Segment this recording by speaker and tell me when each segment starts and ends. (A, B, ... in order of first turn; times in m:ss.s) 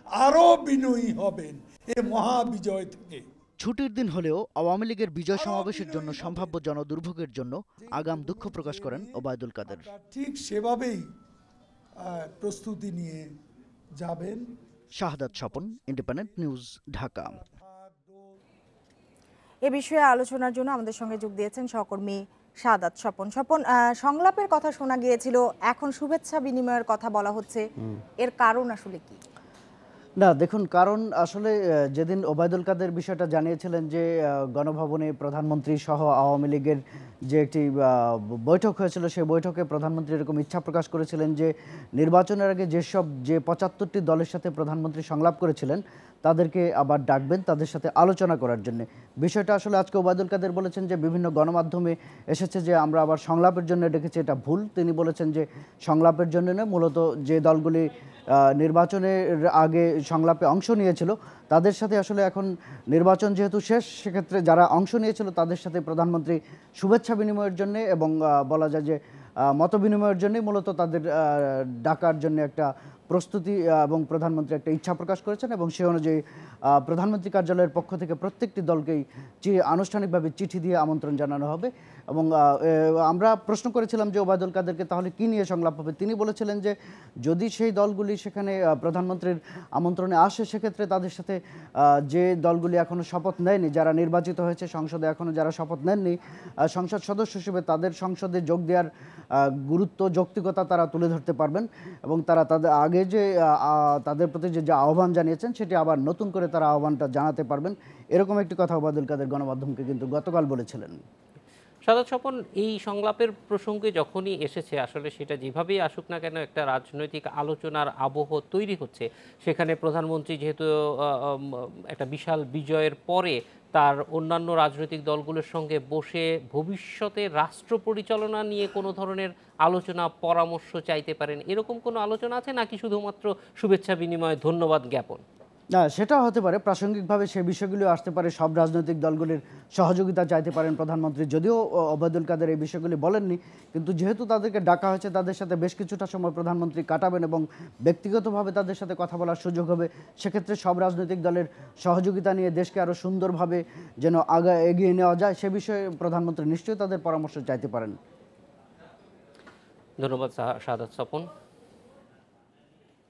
0:00.2-0:03.2 A
0:03.6-0:09.9 B
0:05.3-0:06.5 A
0:07.8-0:09.1 A
0:09.7-0:11.0 A
0:12.1-0:13.2 A
0:14.0-0:14.4 A
0:15.0-0:17.4 B
0:15.9-0:16.2 A
0:17.4-0:18.2 A
0:19.6-0:27.6 C
0:28.2-0:29.2 C
0:30.2-1:09.0 D
1:09.5-1:26.7 D
1:27.2-1:31.4 D
1:32.1-1:36.2 D
1:36.7-1:38.9 D
1:39.4-1:51.0 D
1:51.9-2:15.2 E
2:15.8-2:38.0 D
2:40.0-2:41.3 E